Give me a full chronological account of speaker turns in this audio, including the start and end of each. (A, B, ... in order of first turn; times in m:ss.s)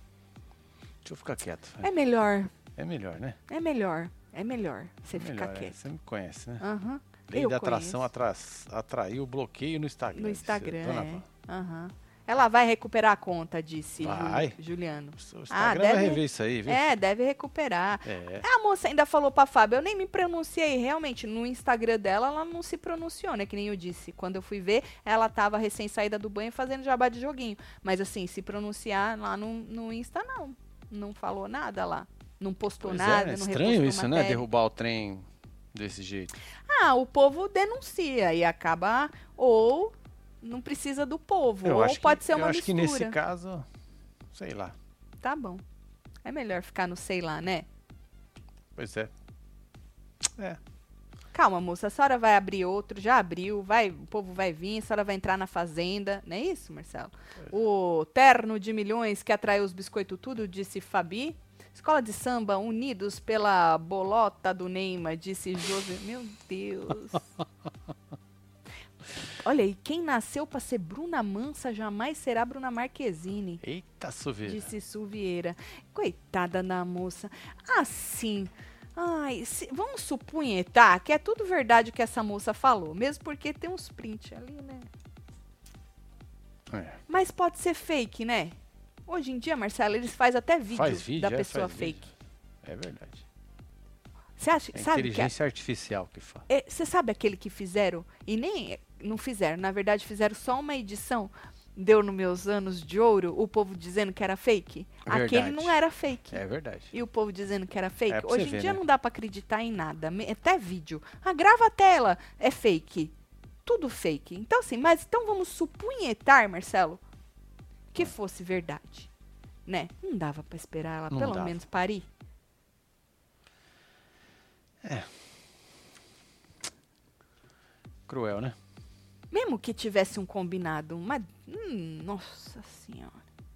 0:01.0-0:01.9 A
0:01.8-0:02.5 B
0:02.8-0:03.4 A
0:03.5-0:05.8 B
0:05.1-0:06.6 A
0:06.6-0:08.0 B
0:07.3-0:11.2 A
0:10.1-0:34.4 B
0:14.0-0:14.6 A
0:15.2-0:16.9 A
0:18.0-0:18.4 A
0:32.8-0:36.3 A
0:36.7-0:43.2 B
0:41.6-0:43.7 A
0:44.3-0:44.8 A
0:45.2-0:45.6 B
0:46.2-0:47.7 B
0:48.8-0:49.1 A
0:50.3-0:50.6 A
0:51.3-1:07.3 B
1:09.4-1:13.6 B
1:13.6-1:14.7 A
1:14.4-1:24.9 B
1:26.7-1:27.0 A
1:27.1-1:32.0 B
1:30.7-1:33.2 A
1:34.4-1:35.3 B
1:34.8-1:36.5 A
1:36.5-1:53.1 B
1:45.1-1:45.8 A
1:46.3-1:46.9 A
1:48.1-1:48.8 A
1:53.6-1:57.0 B
1:57.9-1:59.1 B
1:59.7-2:02.1 B
2:01.1-2:01.6 A
2:04.8-2:05.1 A
2:08.1-2:08.6 A
2:09.3-2:13.2 B